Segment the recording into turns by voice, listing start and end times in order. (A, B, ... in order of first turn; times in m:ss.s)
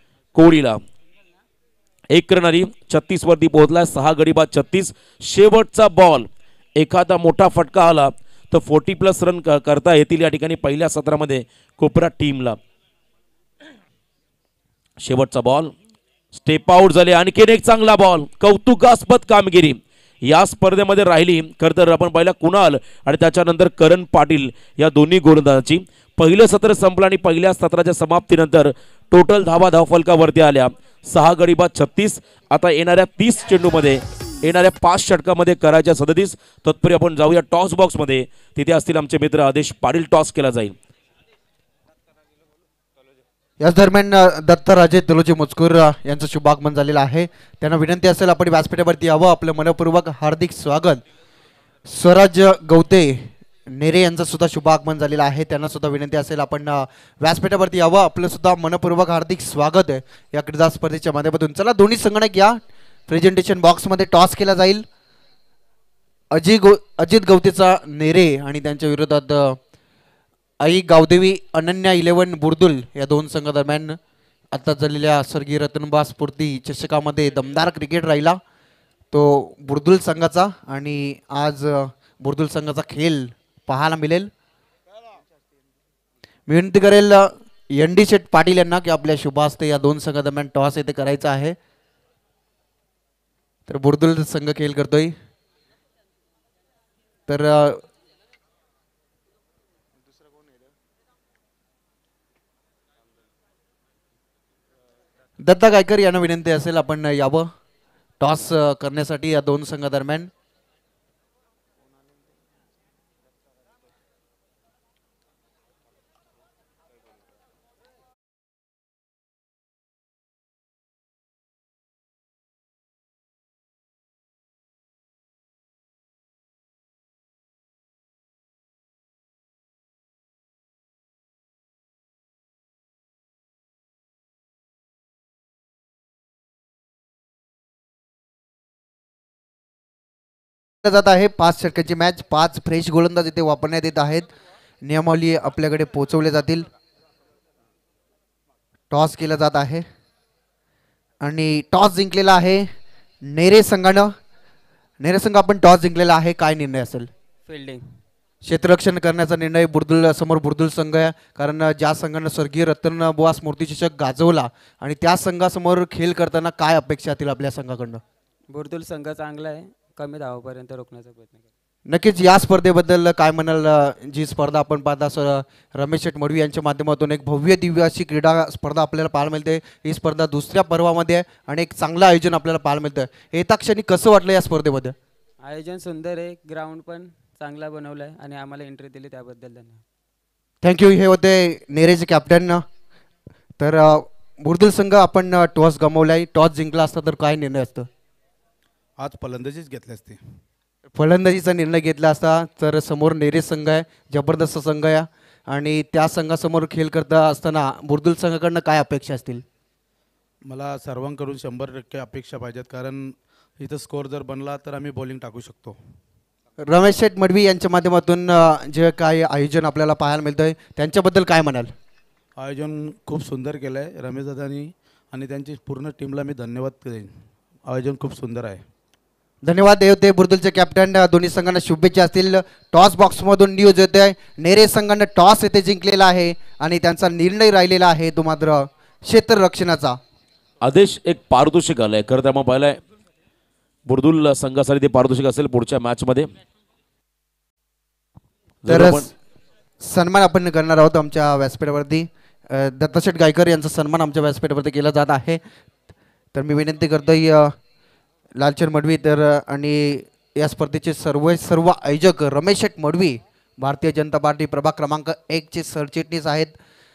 0:00.3-0:00.8 A
0:02.1-0:12.6 A
0:15.0-0:15.7 A
0:16.3-0:40.8 A
0:43.6-0:51.0 B
0:51.9-1:04.8 B
1:06.3-1:09.6 B
1:10.6-1:14.0 B
1:14.5-1:18.4 B
1:19.1-1:24.3 B
1:26.5-1:31.6 B
1:33.7-1:35.1 B
1:37.3-1:37.8 B
1:45.4-1:47.5 B
1:48.2-1:50.3 B
2:20.8-2:24.3 B
2:24.8-2:26.7 B
2:28.9-2:29.8 B
2:31.2-2:32.7 B
2:33.3-2:34.1 B
2:35.0-2:37.1 B
2:37.5-2:37.9 C
2:38.4-2:48.0 B
2:48.5-2:51.5 C
2:51.9-3:05.0 B
3:05.4-3:09.8 C
3:10.6-3:12.6 B
3:13.6-3:17.9 B
3:19.0-3:20.2 D
3:21.0-3:29.4 B
3:30.4-3:35.8 D
3:36.7-3:41.7 B
3:42.4-3:47.1 D
3:47.7-3:48.6 D
3:49.4-4:00.0 B
4:00.6-4:02.8 A
4:03.9-4:06.3 A
4:08.6-4:09.1 A
4:08.7-4:09.1 B
4:09.8-4:15.4 B
4:16.3-4:17.6 B
4:18.4-4:26.5 B